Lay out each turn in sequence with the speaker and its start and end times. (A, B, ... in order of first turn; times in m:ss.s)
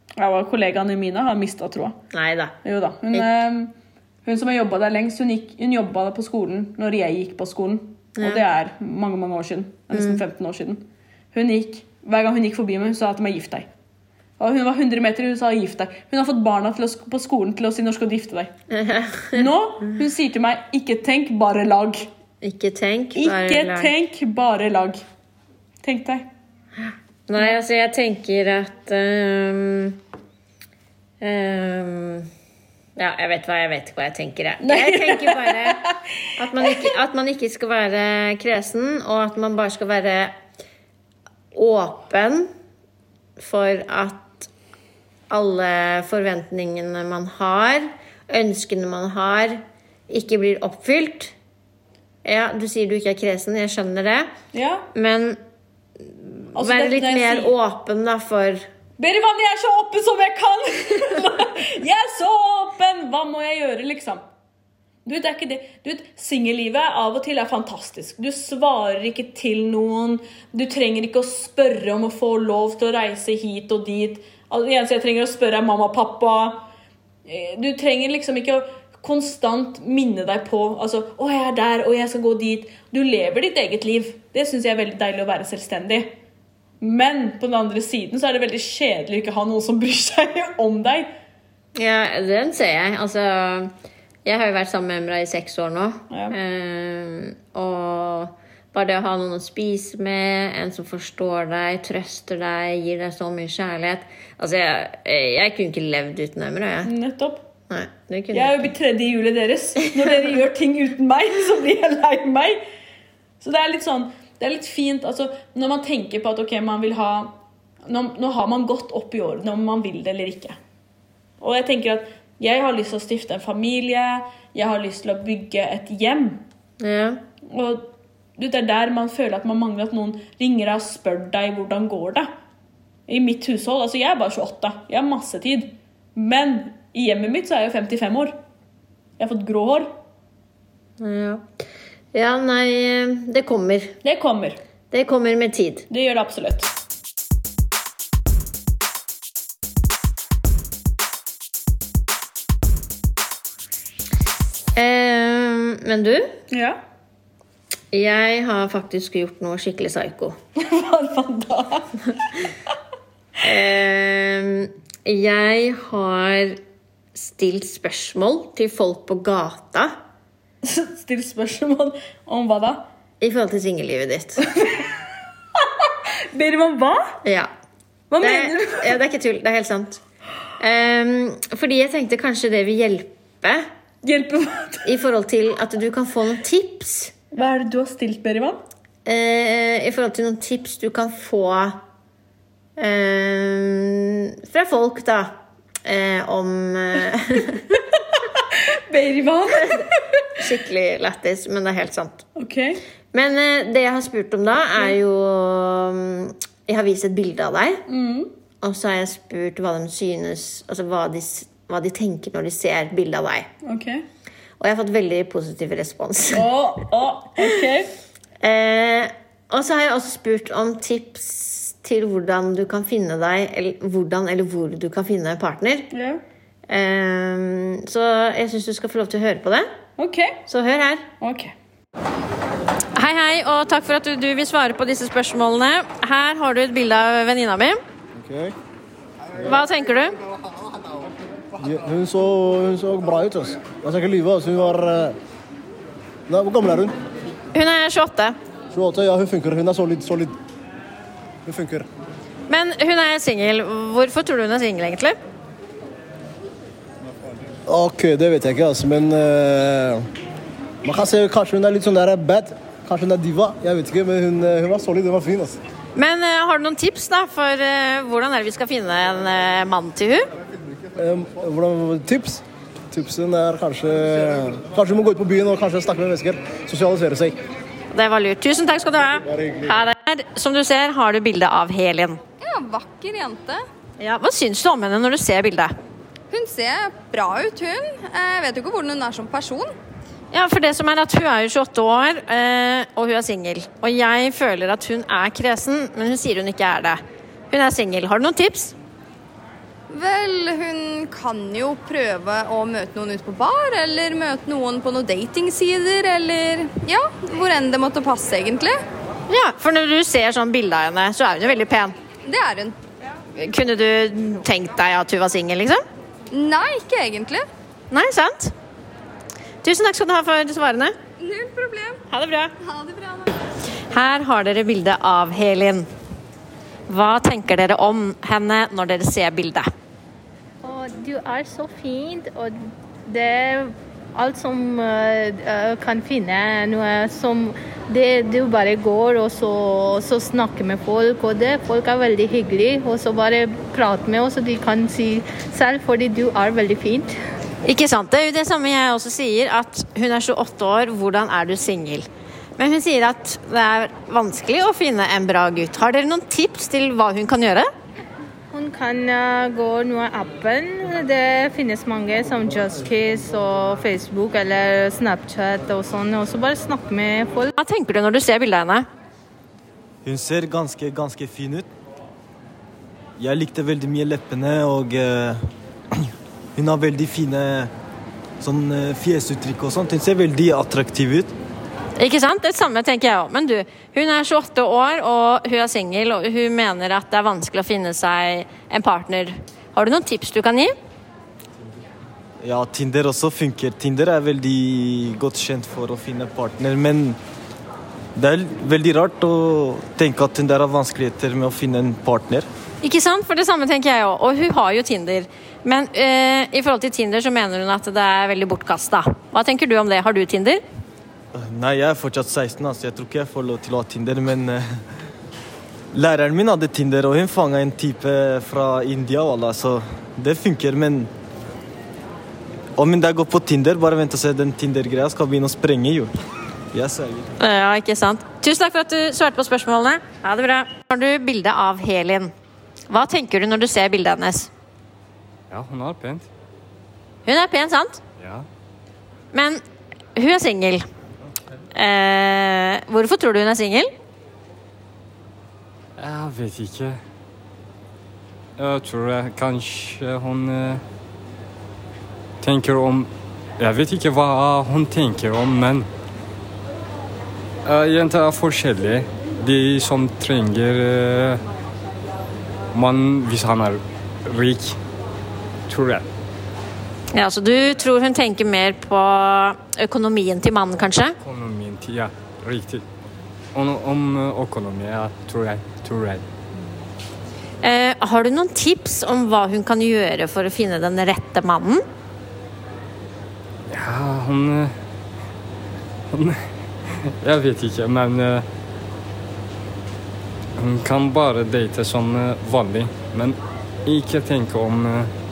0:00.2-0:02.0 A
0:02.1-0:02.5 B
0:02.6-0:03.7 A
0:04.2-0:13.7 A
0:08.2-0:08.4 B
0:09.9-0:10.2 B
0:14.4-0:18.5 A
0:18.7-0:19.5 B
0:19.3-0:22.1 A
0:22.4-0:23.9 B
0:23.2-0:25.0 A
0:25.8-0:26.3 A
0:26.8-0:30.0 B
0:31.2-0:32.3 B
0:33.0-0:35.8 B
0:34.6-0:36.0 A
0:36.4-0:40.4 B
0:36.6-0:36.9 A
0:41.5-0:42.5 B
0:43.4-0:44.5 B
0:45.3-0:51.3 B
0:52.2-0:54.3 B
0:54.5-0:54.9 A
0:54.9-0:55.4 B
0:56.0-0:58.7 B
0:56.6-0:57.6 A
0:59.0-1:04.2 A
1:05.0-1:16.6 A
1:17.3-1:26.1 A
1:26.8-1:31.1 A
1:31.8-1:33.7 B
1:34.2-1:46.9 B
1:36.1-1:36.4 A
1:46.8-1:47.4 A
1:47.7-1:48.7 B
1:48.3-1:52.6 A
1:53.4-1:57.3 A
1:57.8-2:00.6 A
2:01.4-2:06.4 A
2:06.8-2:07.2 B
2:07.5-2:12.3 A
2:13.1-2:18.4 A
2:19.2-2:19.9 A
2:21.0-2:21.5 B
2:22.1-2:24.0 B
2:24.0-2:24.6 A
2:24.9-2:25.9 B
2:25.9-2:26.7 A
2:34.8-2:36.4 B
2:36.5-2:36.8 A
2:37.9-2:40.4 B
2:40.6-2:42.1 A
2:43.4-2:46.6 B
2:47.1-2:49.9 B
2:50.6-2:52.8 A
2:53.2-2:54.5 B
2:54.5-2:54.9 A
2:55.6-2:57.2 A
2:57.2-2:57.5 B
2:58.1-2:59.0 A
2:58.2-3:00.0 B
3:00.6-3:03.7 B
3:04.0-3:04.9 A
3:04.8-3:07.1 B
3:07.3-3:08.6 A
3:09.0-3:11.8 B
3:12.8-3:17.8 B
3:18.5-3:20.3 A
3:20.4-3:22.2 B
3:22.4-3:22.8 A
3:23.1-3:27.8 B
3:27.9-3:28.3 A
3:28.6-3:33.5 B
3:33.6-3:34.0 A
3:34.6-3:36.5 B
3:36.3-3:37.9 A
3:38.4-3:45.9 B
3:45.9-3:46.2 A
3:46.7-3:49.7 B
3:50.0-3:50.4 A
3:50.5-3:51.1 B
3:51.2-3:51.5 A
3:53.0-3:57.8 B
3:58.2-3:58.5 C
3:59.4-4:00.2 B
4:01.6-4:05.2 C
4:06.3-4:07.0 C
4:07.5-4:08.4 B
4:08.7-4:10.4 C
4:11.4-4:11.9 C
4:12.5-4:15.2 B
4:17.7-4:20.1 C
4:20.8-4:25.6 C
4:26.0-4:30.3 B
4:31.0-4:37.4 C
4:37.9-4:42.2 B
4:39.3-4:39.7 C
4:42.4-4:43.6 D
4:44.0-4:45.7 B
4:46.3-4:49.7 D
4:50.3-4:58.8 B
4:59.9-5:08.8 D
5:09.3-5:12.0 B
5:12.3-5:12.8 D
5:13.4-5:15.8 B
5:16.3-5:17.4 D
5:17.9-5:18.5 B
5:19.6-5:21.0 B
5:21.2-5:22.0 D
5:22.1-5:22.5 B
5:22.6-5:23.3 D
5:23.9-5:25.9 B
5:26.9-5:29.7 B
5:30.6-5:47.1 E
5:47.6-5:57.7 B
5:58.5-6:07.5 E
6:07.6-6:08.9 B
6:10.0-6:11.7 F
6:13.2-6:17.7 F
6:18.4-6:21.3 F
6:22.0-6:30.7 B
6:32.4-6:37.2 F
6:38.2-6:42.5 F
6:42.8-6:50.6 B
6:51.3-6:54.8 F
6:55.9-7:01.1 F
7:02.8-7:06.1 F
7:06.7-7:07.3 F
7:07.4-7:12.3 B
7:12.9-7:14.5 B
7:15.5-7:16.3 G
7:17.2-7:18.0 B
7:18.2-7:18.5 G
7:19.3-7:19.6 B
7:20.2-7:20.9 B
7:21.7-7:23.9 B
7:26.0-7:27.0 G
7:28.6-7:30.8 G
7:32.4-7:35.9 G
7:37.6-7:41.4 G
7:42.7-7:44.8 G
7:45.7-7:46.1 G
7:47.1-7:51.2 B
7:51.2-7:52.9 G
7:53.5-7:56.3 G
7:57.6-8:01.8 B
8:03.7-8:04.7 G
8:06.1-8:08.5 G
8:10.6-8:15.1 G